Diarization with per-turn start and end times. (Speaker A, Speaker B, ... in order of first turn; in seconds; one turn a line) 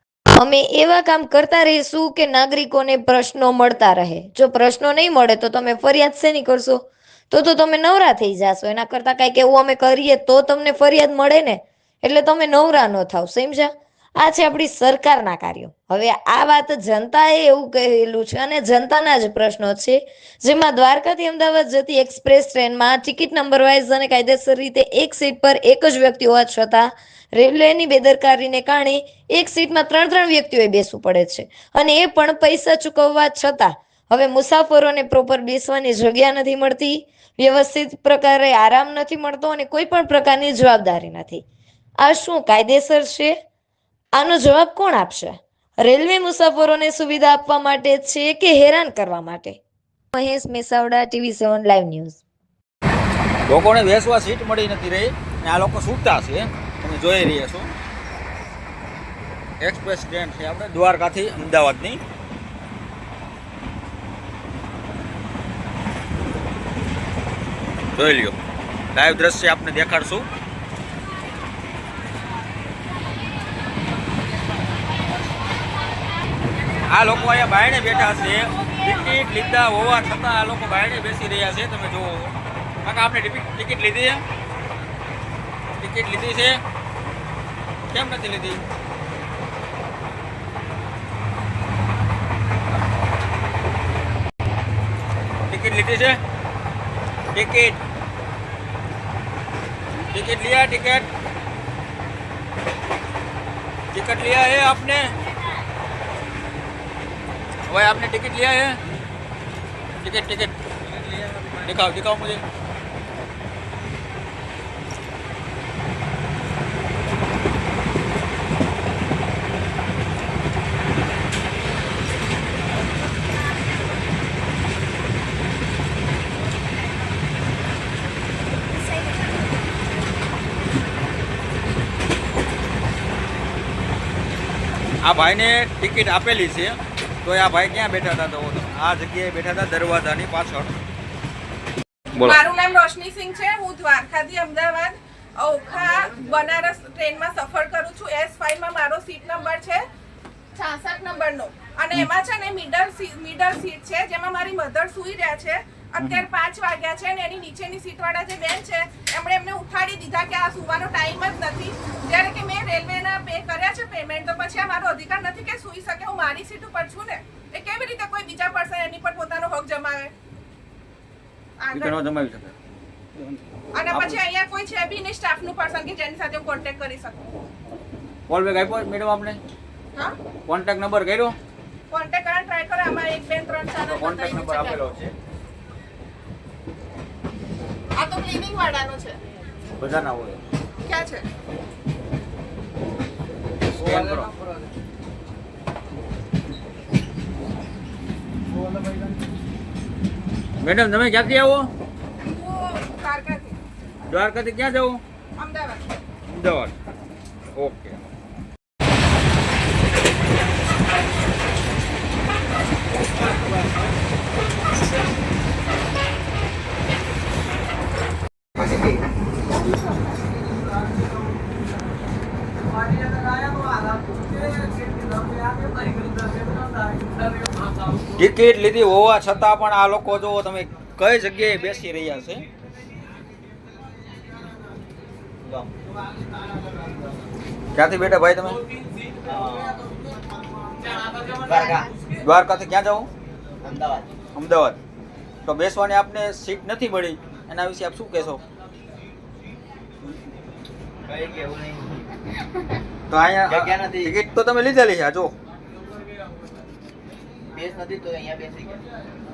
Speaker A: 0.3-41.4
Speaker A: 42.0-43.4
Speaker A: 44.2-49.6
Speaker A: 50.1-52.2
Speaker B: 53.5-57.7
Speaker B: 59.6-62.0
Speaker B: 68.0-68.4
Speaker B: 68.9-70.3
Speaker B: 76.9-84.2
Speaker B: 85.8-86.6
Speaker B: 87.9-88.6
Speaker B: 95.5-96.2
Speaker B: 97.3-97.8
Speaker B: 100.1-101.1
Speaker B: 103.9-105.1
Speaker B: 107.7-108.8
Speaker B: 110.0-110.5
Speaker B: 111.3-112.4
Speaker B: 135.0-140.7
Speaker C: 142.2-149.8
Speaker C: 150.6-170.1
Speaker B: 156.0-156.2
Speaker C: 171.6-172.0
Speaker B: 171.7-172.5
Speaker B: 173.2-174.2
Speaker C: 173.7-177.2
Speaker B: 178.3-179.4
Speaker B: 180.5-181.4
Speaker C: 181.9-184.8
Speaker B: 183.9-185.1
Speaker C: 187.9-189.2
Speaker B: 189.8-190.4
Speaker C: 190.9-191.3
Speaker B: 193.8-194.3
Speaker B: 200.6-201.7
Speaker C: 202.3-203.6
Speaker B: 204.1-205.0
Speaker C: 205.4-205.8
Speaker B: 206.3-206.7
Speaker B: 207.6-208.0
Speaker B: 228.2-232.4
Speaker D: 235.4-235.7
Speaker B: 237.7-238.6
Speaker D: 239.3-239.9
Speaker D: 241.4-241.9
Speaker B: 242.2-243.1
Speaker D: 243.6-244.1
Speaker B: 244.3-244.8
Speaker B: 245.4-248.4
Speaker D: 251.1-252.1
Speaker B: 253.1-255.3
Speaker D: 253.5-254.2
Speaker D: 257.5-258.8